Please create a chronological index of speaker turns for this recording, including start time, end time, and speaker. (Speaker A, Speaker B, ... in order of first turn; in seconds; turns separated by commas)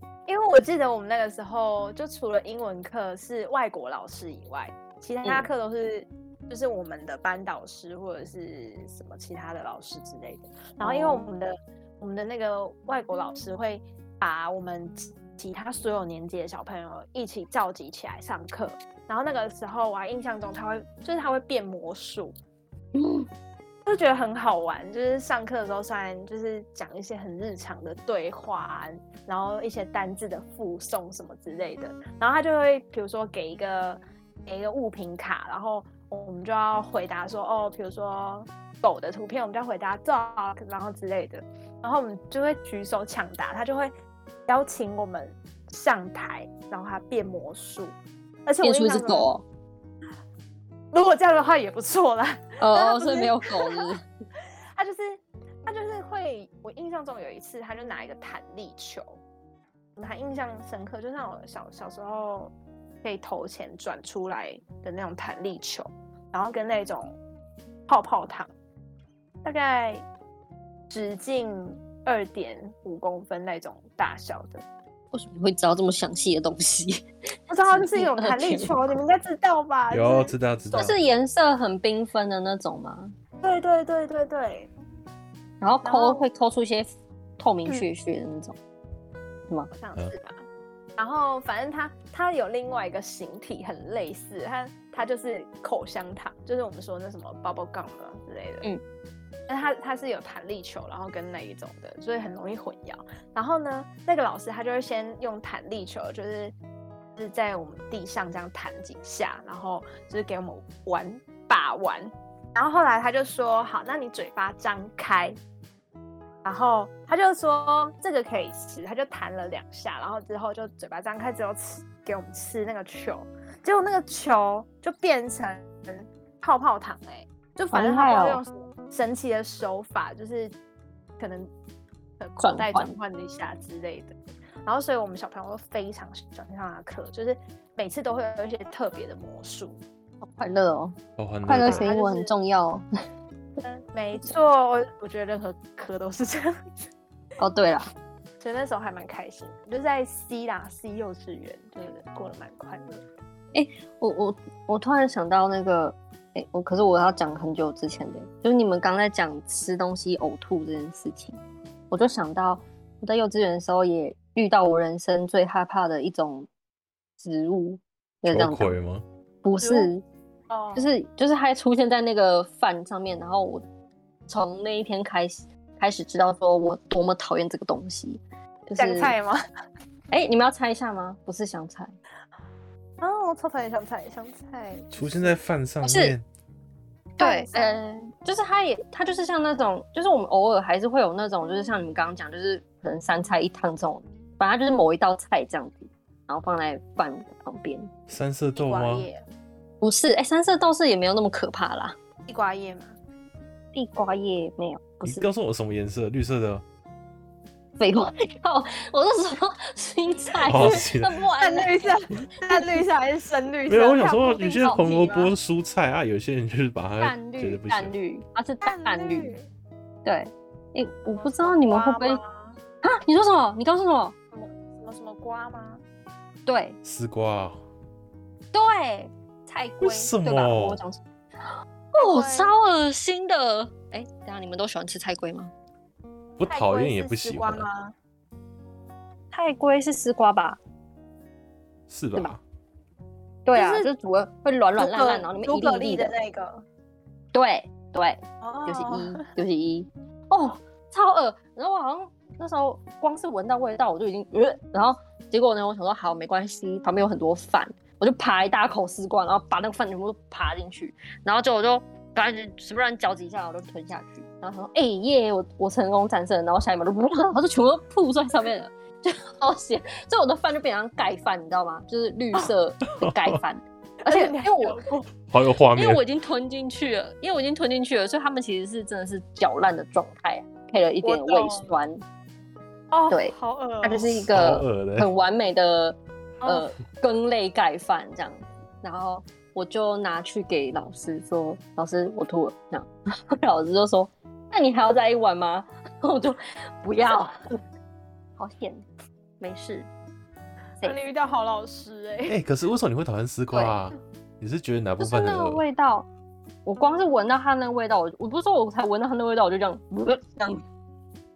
Speaker A: 0.3-22.3, Speaker B: 10.8-11.3, Speaker B: 22.9-23.3, Speaker A: 23.9-43.9, Speaker A: 44.5-49.3, Speaker B: 48.6-49.4, Speaker A: 50.9-53.9, Speaker B: 52.6-54.0, Speaker A: 54.8-59.2, Speaker A: 60.0-67.2, Speaker A: 67.9-68.5, Speaker A: 69.4-70.0, Speaker A: 70.9-74.6, Speaker B: 75.1-77.0, Speaker A: 77.5-80.9, Speaker B: 77.6-79.0, Speaker C: 79.9-81.0, Speaker B: 80.7-83.1, Speaker A: 83.4-84.7, Speaker B: 85.6-88.5, Speaker A: 85.8-86.2, Speaker A: 89.7-90.4, Speaker A: 91.0-98.7, Speaker A: 99.5-106.5, Speaker A: 107.2-115.3, Speaker A: 116.4-130.5, Speaker B: 127.7-128.4, Speaker A: 131.2-131.5, Speaker A: 132.2-139.8, Speaker B: 132.4-132.9, Speaker B: 140.2-142.8, Speaker C: 141.2-141.9, Speaker A: 141.6-142.3, Speaker A: 143.6-146.5, Speaker B: 147.4-147.9, Speaker A: 148.4-153.0, Speaker B: 153.5-161.4, Speaker B: 161.9-166.5, Speaker B: 167.2-168.8, Speaker C: 168.3-169.0, Speaker B: 169.4-170.0, Speaker A: 169.6-169.9, Speaker A: 170.5-170.9, Speaker B: 170.7-173.6, Speaker B: 174.3-179.2, Speaker A: 178.8-179.4, Speaker B: 180.1-181.9, Speaker A: 183.0-185.4, Speaker C: 184.9-186.2, Speaker B: 185.8-186.1, Speaker B: 187.2-197.9, Speaker A: 187.2-187.8, Speaker C: 198.1-199.1, Speaker A: 198.6-199.2, Speaker B: 199.8-201.9, Speaker A: 202.3-202.9, Speaker B: 203.7-205.3, Speaker C: 205.0-206.6, Speaker B: 207.8-212.0, Speaker A: 210.3-210.8, Speaker C: 210.5-211.2, Speaker A: 211.4-215.3, Speaker C: 213.7-217.9, Speaker B: 214.6-214.9, Speaker B: 217.0-219.3, Speaker A: 218.6-219.4, Speaker B: 220.0-222.2, Speaker A: 221.1-222.6, Speaker B: 222.8-224.1, Speaker A: 224.3-225.8, Speaker B: 226.4-226.8, Speaker C: 226.8-227.6, Speaker B: 228.5-235.5, Speaker C: 229.8-230.8, Speaker A: 232.0-232.5, Speaker C: 236.4-237.7, Speaker A: 236.5-237.9, Speaker B: 239.3-240.6, Speaker C: 241.9-242.4, Speaker B: 243.4-246.1, Speaker A: 243.5-243.9, Speaker A: 244.8-246.6, Speaker B: 247.3-274.8, Speaker A: 248.4-249.3, Speaker C: 273.0-273.4, Speaker A: 274.0-275.1, Speaker C: 275.3-276.0, Speaker B: 275.7-282.0, Speaker A: 281.0-281.7, Speaker A: 282.9-284.2, Speaker B: 283.1-297.6, Speaker C: 284.2-285.1, Speaker A: 286.4-286.7, Speaker B: 298.4-298.8, Speaker B: 299.4-299.9, Speaker A: 300.8-302.4, Speaker C: 302.3-305.6, Speaker B: 303.5-303.8, Speaker B: 305.0-306.1, Speaker B: 306.6-310.6